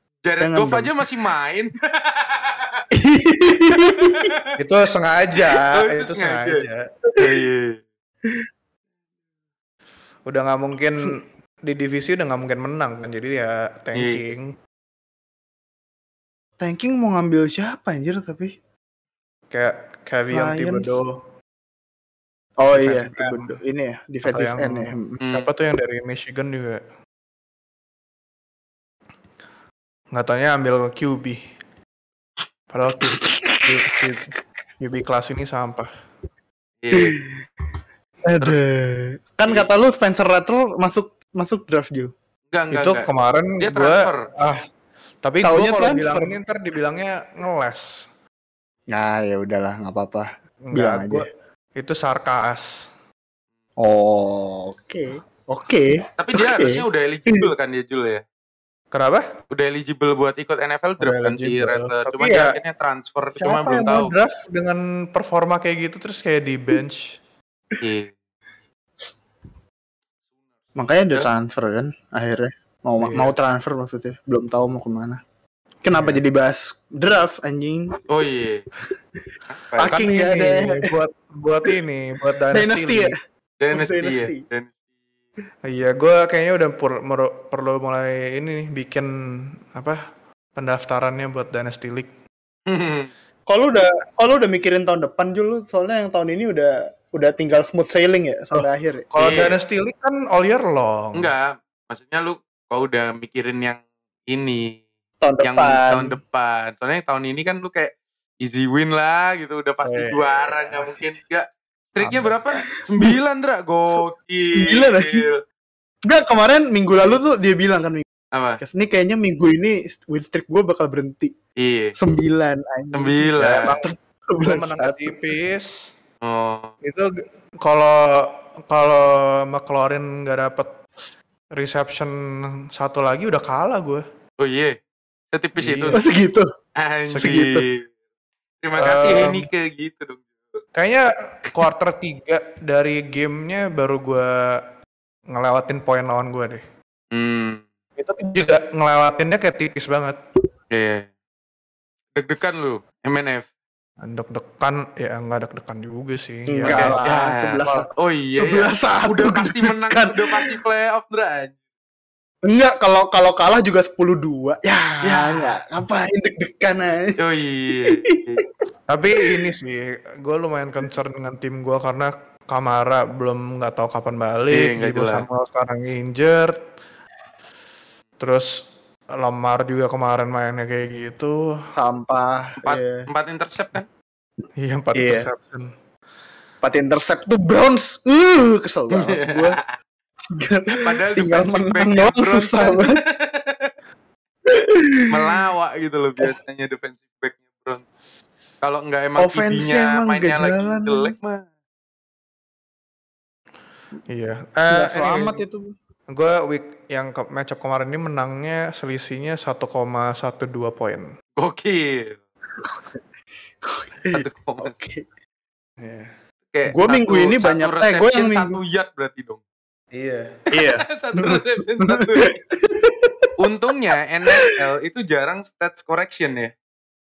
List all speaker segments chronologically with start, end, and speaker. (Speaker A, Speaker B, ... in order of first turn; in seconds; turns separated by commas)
Speaker A: 0.2-2.7, Speaker B: 0.4-1.1, Speaker B: 2.9-4.3, Speaker A: 3.7-4.5, Speaker C: 4.6-6.8, Speaker A: 5.7-6.7, Speaker A: 7.2-7.8, Speaker C: 10.3-14.6, Speaker A: 13.9-14.3, Speaker B: 16.6-18.5, Speaker C: 19.5-21.2, Speaker B: 20.3-21.0, Speaker B: 22.6-25.2, Speaker C: 22.7-23.6, Speaker C: 24.2-26.8, Speaker A: 25.2-25.5, Speaker C: 30.1-31.4, Speaker C: 32.7-34.3, Speaker B: 33.0-33.7, Speaker C: 34.8-35.9, Speaker A: 36.8-37.2, Speaker B: 36.9-37.4, Speaker B: 38.3-42.1, Speaker A: 42.5-43.1, Speaker C: 42.7-44.6, Speaker A: 43.6-44.3, Speaker C: 45.2-48.1, Speaker B: 45.4-46.4, Speaker B: 48.9-51.3, Speaker C: 50.6-52.7, Speaker B: 53.8-57.5, Speaker A: 56.2-58.2, Speaker C: 58.9-59.3, Speaker A: 59.5-64.1, Speaker C: 61.0-62.6, Speaker C: 63.4-67.2, Speaker A: 67.8-68.1, Speaker B: 70.8-75.2, Speaker C: 73.0-73.3, Speaker B: 75.8-78.0, Speaker C: 75.9-76.2, Speaker A: 78.1-78.7, Speaker A: 79.5-80.0, Speaker B: 79.8-80.9, Speaker C: 79.9-83.2, Speaker B: 82.5-83.2, Speaker A: 83.6-84.7, Speaker B: 83.7-84.4, Speaker C: 85.6-90.0, Speaker C: 90.5-92.1, Speaker A: 92.7-93.1, Speaker B: 93.5-99.1, Speaker C: 98.5-101.3, Speaker A: 99.2-99.6, Speaker A: 101.2-104.8, Speaker B: 105.2-106.2, Speaker A: 105.4-115.4, Speaker C: 109.8-110.9, Speaker C: 112.0-112.4, Speaker B: 112.6-113.2, Speaker B: 114.5-115.2, Speaker B: 116.0-118.0, Speaker A: 118.3-118.6, Speaker B: 118.6-121.3, Speaker A: 121.6-122.0, Speaker B: 122.0-125.1, Speaker A: 122.9-123.8, Speaker C: 123.4-123.9, Speaker C: 124.4-125.7, Speaker A: 126.2-126.7, Speaker C: 126.8-130.7, Speaker C: 131.5-132.2, Speaker C: 132.7-134.0, Speaker A: 134.4-134.8, Speaker A: 135.3-136.0, Speaker C: 135.6-136.0, Speaker B: 135.9-136.5, Speaker A: 136.8-137.8, Speaker C: 137.1-137.5, Speaker B: 137.2-137.7, Speaker A: 138.6-140.6, Speaker C: 138.8-139.5, Speaker C: 140.8-144.6, Speaker C: 145.3-146.6, Speaker A: 147.1-147.7, Speaker C: 148.0-150.2, Speaker A: 150.7-151.1, Speaker A: 152.2-153.5, Speaker C: 154.0-157.1, Speaker B: 156.5-160.5, Speaker A: 156.7-161.5, Speaker B: 162.4-168.5, Speaker A: 165.0-165.5, Speaker A: 167.2-168.4, Speaker C: 168.9-176.6, Speaker A: 174.5-175.3, Speaker C: 178.2-181.4, Speaker B: 181.7-183.1, Speaker A: 182.7-183.9, Speaker C: 184.6-185.7, Speaker B: 184.9-185.3, Speaker B: 186.6-189.6, Speaker A: 188.9-189.7, Speaker B: 190.3-193.0, Speaker A: 190.7-193.7, Speaker B: 194.5-195.5, Speaker A: 195.1-197.8, Speaker A: 198.6-201.4, Speaker B: 199.2-201.1, Speaker C: 204.1-205.4, Speaker B: 204.7-205.7, Speaker C: 206.1-211.1, Speaker A: 211.4-212.2, Speaker B: 213.6-215.1, Speaker A: 214.1-214.8, Speaker C: 215.8-216.1, Speaker A: 216.5-219.4, Speaker B: 216.7-218.6, Speaker C: 219.9-220.3, Speaker B: 220.5-223.3, Speaker A: 220.6-222.3, Speaker A: 223.4-226.5